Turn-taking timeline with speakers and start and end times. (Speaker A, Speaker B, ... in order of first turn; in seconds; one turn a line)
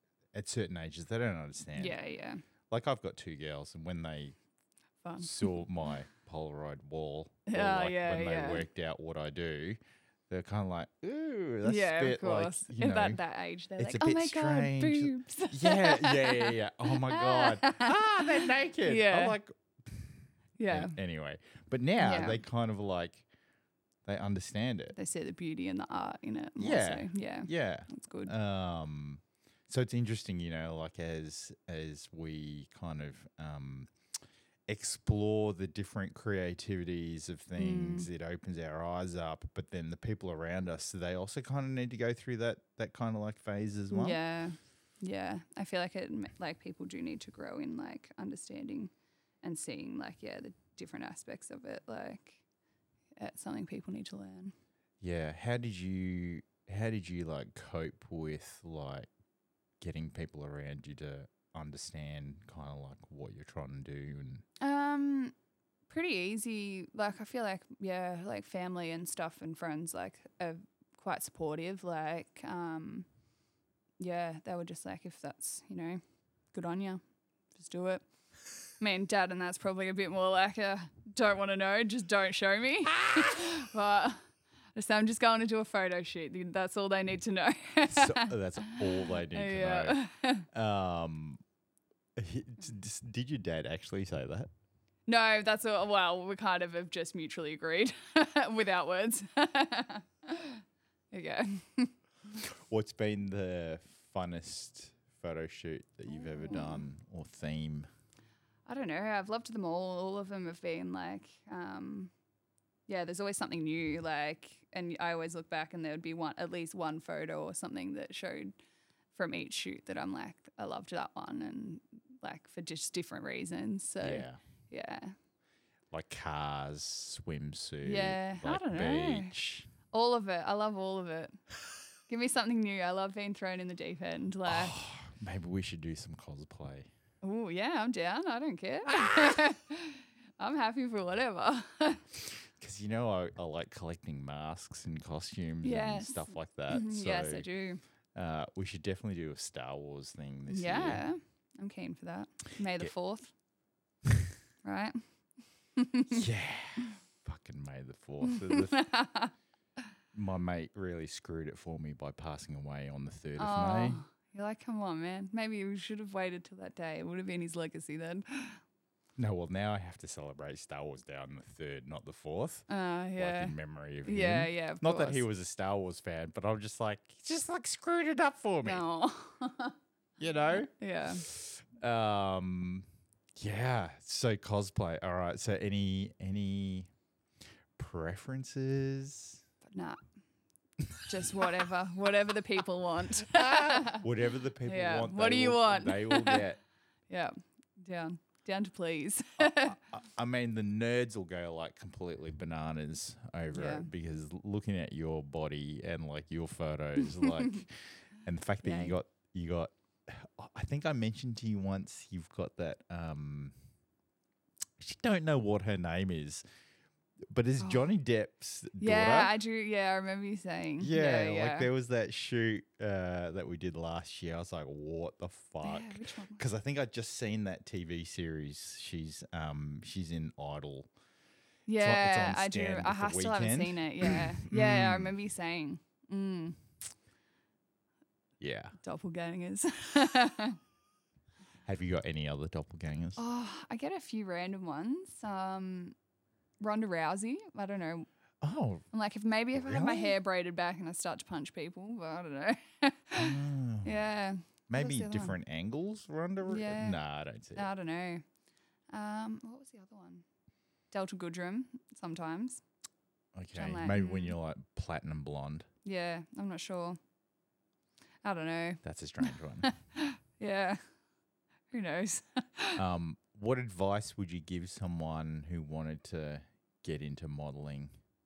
Speaker A: 0.3-2.0
Speaker B: 1.8-2.4
Speaker A: 2.7-4.4
Speaker B: 5.0-5.6
Speaker A: 5.2-13.2
Speaker B: 7.5-8.7
Speaker B: 11.6-19.4
Speaker A: 13.8-23.3
Speaker B: 20.6-21.0
Speaker B: 22.0-22.4
Speaker A: 24.1-25.0
Speaker B: 24.9-28.3
Speaker A: 26.6-33.9
Speaker A: 34.7-44.2
Speaker B: 37.6-38.1
Speaker B: 43.9-48.9
Speaker B: 49.4-52.4
Speaker B: 53.2-54.5
Speaker A: 55.0-59.1
Speaker A: 59.8-64.5
Speaker B: 64.6-65.3
Speaker B: 65.9-73.1
Speaker B: 74.0-76.0
Speaker B: 76.5-77.0
Speaker B: 77.5-78.0
Speaker B: 78.8-90.5
Speaker A: 83.1-83.5
Speaker A: 87.9-90.0
Speaker A: 90.5-91.4
Speaker A: 92.2-94.5
Speaker B: 95.1-102.0
Speaker A: 102.4-107.9
Speaker B: 106.1-106.9
Speaker B: 108.7-112.1
Speaker B: 112.9-118.5
Speaker B: 119.1-125.2
Speaker A: 124.0-124.4
Speaker A: 125.9-129.7
Speaker B: 127.8-131.4
Speaker B: 132.1-134.8
Speaker A: 134.5-136.9
Speaker B: 137.2-142.1
Speaker A: 138.9-139.4
Speaker A: 142.3-147.5
Speaker B: 145.6-147.8
Speaker A: 148.2-151.0
Speaker B: 150.5-153.3
Speaker A: 154.1-154.3
Speaker B: 154.6-155.0
Speaker B: 155.8-156.3
Speaker A: 156.1-158.9
Speaker B: 158.2-159.3
Speaker A: 160.1-164.0
Speaker B: 163.4-168.6
Speaker A: 169.2-178.8
Speaker B: 172.7-175.3
Speaker B: 178.6-179.8
Speaker A: 180.2-186.9
Speaker B: 180.6-181.2
Speaker A: 187.8-189.4
Speaker B: 189.7-190.0
Speaker A: 190.8-191.7
Speaker B: 191.1-194.1
Speaker A: 193.2-196.6
Speaker B: 194.6-196.5
Speaker B: 197.1-199.8
Speaker A: 199.4-213.5
Speaker B: 203.5-203.9
Speaker B: 207.0-207.6
Speaker B: 208.6-209.0
Speaker A: 214.8-216.4
Speaker A: 217.3-219.3
Speaker B: 218.8-221.7
Speaker A: 220.8-230.9
Speaker B: 225.6-226.4
Speaker B: 231.7-236.6
Speaker A: 231.8-235.2
Speaker A: 238.4-238.8
Speaker B: 238.8-240.6
Speaker A: 241.7-243.2
Speaker B: 243.2-246.0
Speaker B: 246.6-248.1
Speaker A: 248.4-248.8
Speaker B: 248.9-255.4
Speaker A: 249.6-250.2
Speaker A: 253.2-254.1
Speaker A: 254.7-257.7
Speaker B: 256.4-257.0
Speaker B: 257.6-258.2
Speaker B: 258.9-260.2
Speaker B: 260.9-262.6
Speaker A: 263.4-265.7
Speaker B: 263.6-264.4
Speaker B: 265.9-267.0
Speaker B: 268.2-270.8
Speaker A: 268.8-269.7
Speaker B: 271.7-272.8
Speaker A: 272.8-277.9